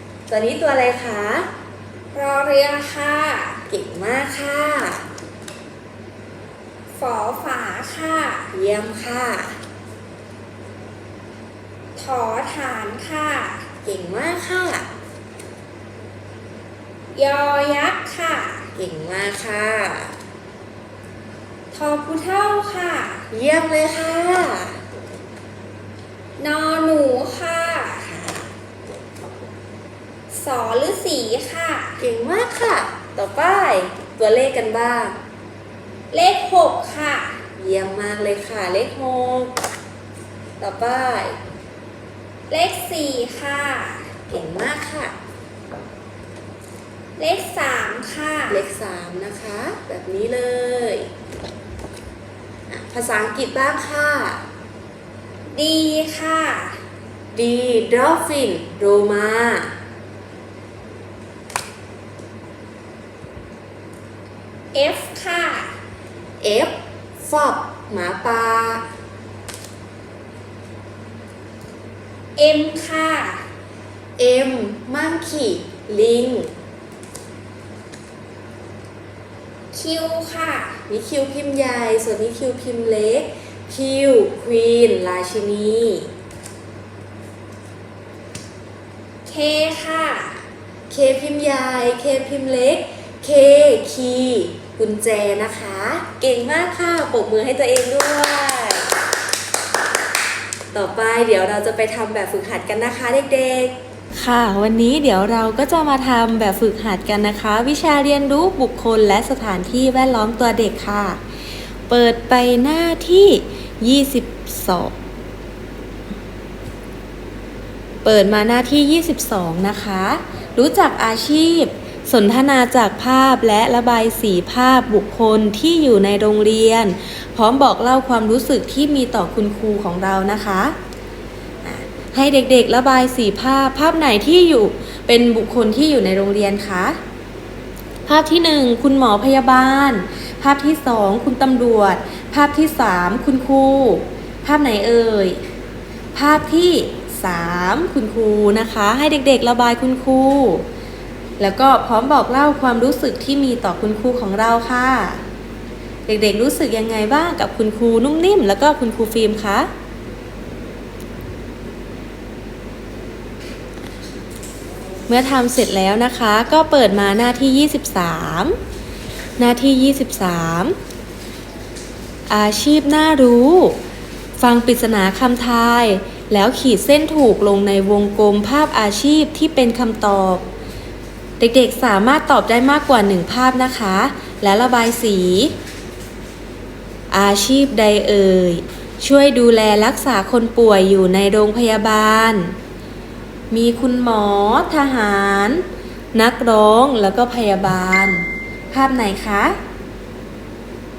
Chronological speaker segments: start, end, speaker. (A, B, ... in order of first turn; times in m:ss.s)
0:00.3-0:01.5 A
0:02.1-0:03.6 B
0:03.7-0:05.0 A
0:07.0-0:08.5 B
0:08.5-0:09.6 A
0:12.0-0:13.7 B
0:13.8-0:14.9 A
0:17.1-0:18.7 B
0:18.8-0:20.1 A
0:21.7-0:23.2 B
0:23.3-0:24.8 A
0:26.4-0:28.1 B
0:28.1-0:28.5 A
0:30.3-0:32.0 B
0:32.0-0:35.2 A
0:36.1-0:37.4 B
0:37.6-0:39.6 A
0:40.6-0:41.4 A
0:42.5-0:44.1 B
0:44.3-0:45.1 A
0:47.2-0:48.6 B
0:48.5-0:51.1 A
0:52.7-0:54.4 A
0:55.5-0:56.8 B
0:57.3-0:59.7 A
1:04.7-1:05.7 B
1:06.4-1:08.9 A
1:12.4-1:13.4 B
1:14.2-1:16.5 A
1:19.7-1:20.8 B
1:20.9-1:26.1 A
1:29.2-1:30.4 B
1:30.9-1:39.0 A
1:40.7-1:51.2 A
1:51.9-1:55.0 A
1:58.0-2:10.8 A
2:11.6-2:17.0 A
2:18.0-2:25.4 A
2:26.1-2:30.6 A
2:31.4-2:35.2 A
2:36.1-2:39.7 A
2:45.1-2:48.6 A
2:49.4-2:50.8 A
2:52.3-2:53.8 A
2:54.4-3:00.5 A
3:01.4-3:05.5 A
3:07.1-3:12.5 A
3:13.5-3:19.6 A